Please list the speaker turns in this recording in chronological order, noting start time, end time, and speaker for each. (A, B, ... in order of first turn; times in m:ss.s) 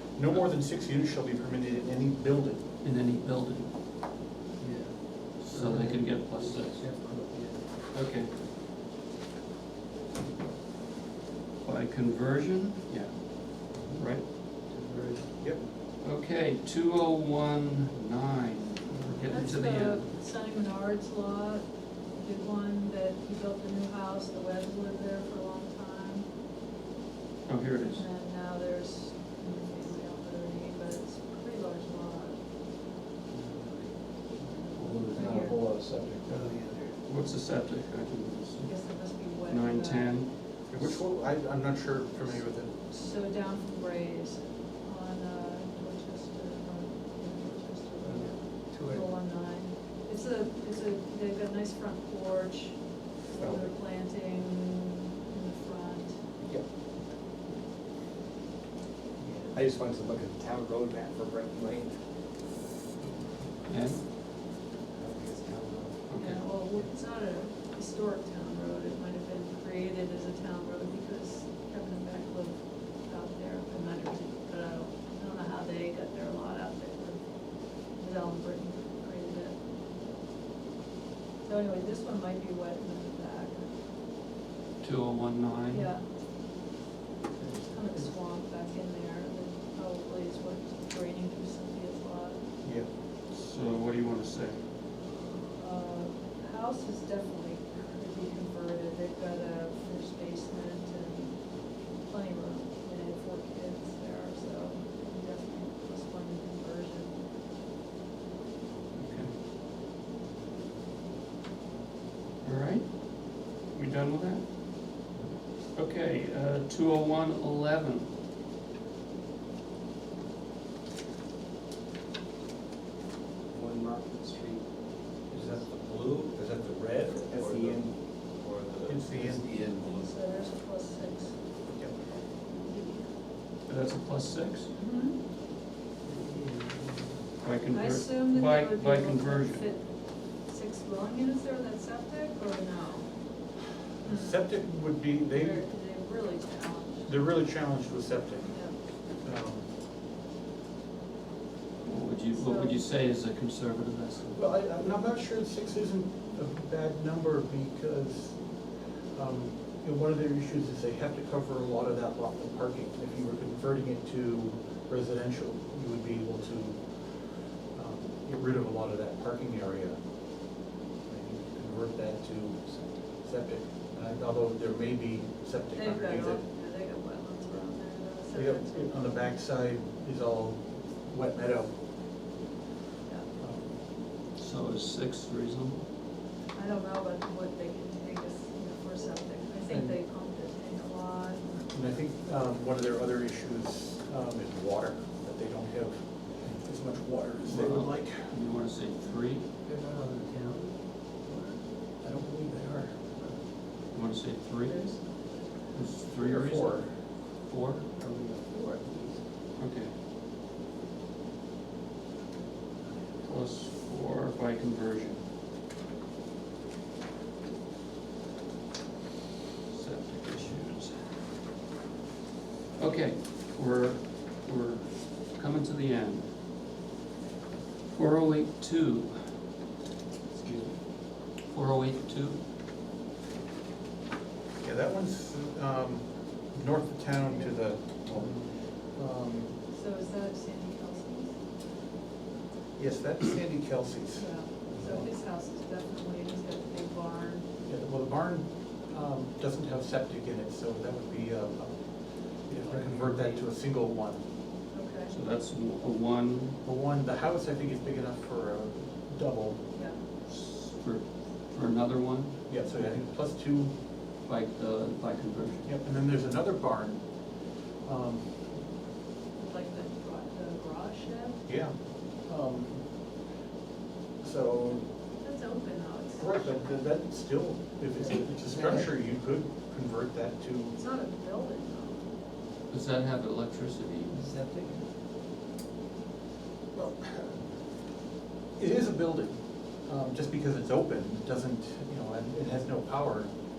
0:00.2-0:02.6 A
0:02.8-0:03.7 B
0:04.6-0:07.7 C
0:05.4-0:06.9 B
0:07.9-0:08.4 B
0:11.6-0:14.3 B
0:14.7-0:15.7 C
0:16.0-0:20.1 B
0:19.3-0:26.3 D
0:27.4-0:28.0 B
0:27.8-0:32.4 D
0:33.3-0:33.9 C
0:34.4-0:36.9 C
0:35.1-0:35.6 D
0:37.0-0:41.0 B
0:38.6-0:40.1 D
0:40.7-0:42.7 A
0:42.9-0:56.2 D
0:48.0-0:49.1 C
0:53.3-0:53.7 A
0:59.2-1:02.0 C
1:03.6-1:04.0 B
1:04.9-1:06.0 C
1:06.1-1:06.4 B
1:06.2-1:17.2 D
1:17.9-1:19.6 D
1:21.4-1:23.7 D
1:24.8-1:25.9 B
1:25.7-1:26.0 D
1:27.7-1:32.4 D
1:32.6-1:32.9 A
1:33.3-1:34.6 B
1:35.5-1:41.4 D
1:42.0-1:47.2 D
1:48.9-1:49.3 B
1:52.4-1:54.5 B
1:55.7-1:58.1 B
2:03.5-2:04.6 C
2:05.3-2:05.7 C
2:05.7-2:07.8 E
2:07.0-2:07.9 C
2:08.4-2:09.0 E
2:08.8-2:09.5 A
2:09.1-2:09.7 C
2:09.6-2:11.4 D
2:11.7-2:12.1 A
2:12.5-2:13.1 D
2:13.7-2:14.7 B
2:14.7-2:15.2 D
2:16.2-2:17.0 C
2:17.4-2:19.7 B
2:17.7-2:23.1 D
2:24.0-2:24.4 D
2:24.1-2:25.6 A
2:25.3-2:27.1 D
2:27.0-2:28.5 A
2:28.5-2:28.8 D
2:29.2-2:29.7 A
2:31.8-2:34.4 B
2:31.9-2:32.8 D
2:34.3-2:38.4 A
2:39.1-2:46.8 A
2:47.7-2:50.0 A
2:51.1-2:52.6 A
2:53.2-2:56.4 A
2:55.7-2:59.2 D
2:58.3-3:01.7 A
3:03.4-3:03.8 A
3:04.4-3:05.8 B
3:06.5-3:11.6 D
3:11.7-3:18.3 A
3:17.4-3:19.5 B
3:19.6-3:20.7 C
3:21.3-3:21.6 C
3:22.0-3:22.9 A
3:23.9-3:25.0 B
3:24.6-3:25.8 D
3:25.7-3:27.9 B
3:26.1-3:26.9 A
3:28.0-3:29.2 C
3:29.6-3:29.9 B
3:33.2-3:35.2 B
3:39.7-3:41.0 B
3:42.8-3:46.3 B
3:47.9-3:49.2 B
3:51.5-3:52.4 B
3:54.6-3:59.5 A
3:59.7-4:01.3 D
4:02.8-4:05.0 A
4:04.2-4:07.5 D
4:07.6-4:11.8 A
4:12.5-4:14.2 A
4:12.7-4:13.0 C
4:14.7-4:15.1 D
4:15.1-4:16.6 B
4:16.6-4:19.6 A
4:19.7-4:20.0 D
4:20.2-4:22.3 B
4:22.5-4:23.7 A
4:24.2-4:25.7 B
4:25.6-4:27.0 A
4:27.8-4:28.3 A
4:29.4-4:31.4 D
4:31.5-4:31.7 A
4:32.2-4:32.8 A
4:34.2-4:34.8 A
4:35.2-4:36.5 D
4:36.2-4:40.7 A
4:38.6-4:38.8 C
4:40.7-4:42.1 D
4:42.7-4:44.2 B
4:44.2-4:44.8 C
4:46.7-4:47.4 A
4:48.6-4:53.3 A